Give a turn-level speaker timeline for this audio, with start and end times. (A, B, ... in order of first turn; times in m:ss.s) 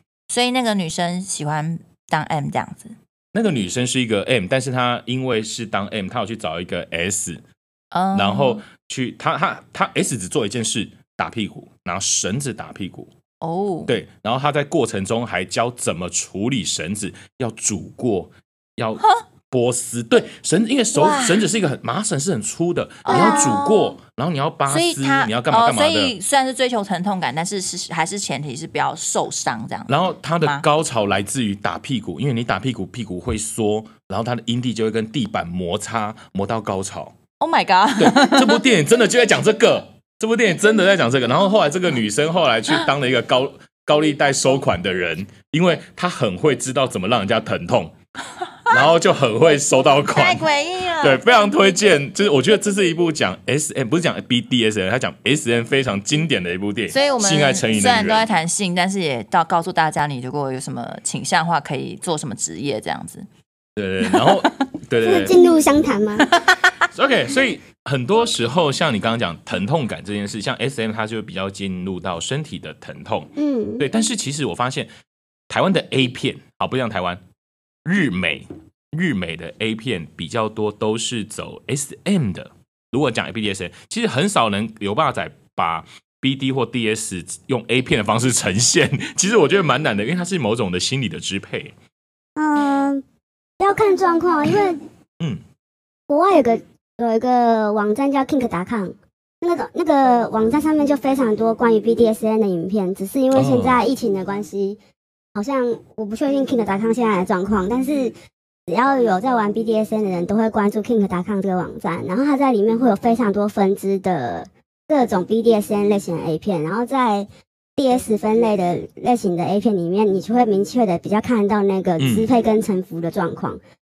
0:00.3-0:03.0 A
0:03.3-0:07.4 B
0:07.9-0:08.6 A
0:08.1-0:13.1 B
0:13.4-0:13.9 A
0:13.9-0:26.1 B
0:20.9-0:21.5 A
0:23.1-0:24.0 A
0:23.1-0:23.6 C
0:24.7-0:30.6 A
0:29.9-0:37.2 B
0:37.4-0:38.6 A
0:38.0-0:47.9 B
0:48.7-0:50.5 B
0:50.1-0:51.2 A
0:51.0-0:58.3 B
0:56.9-1:03.3 A
1:03.8-1:05.4 B
1:04.1-1:04.5 A
1:05.0-1:06.3 C
1:06.3-1:06.8 A
1:06.9-1:14.9 B
1:13.4-1:13.8 C
1:15.5-1:17.2 B
1:17.8-1:31.7 B
1:32.4-1:33.0 C
1:33.6-1:34.8 C
1:36.1-1:44.8 C
1:43.3-1:43.8 B
1:45.4-1:48.1 C
1:48.7-2:03.6 C
2:02.0-2:02.3 B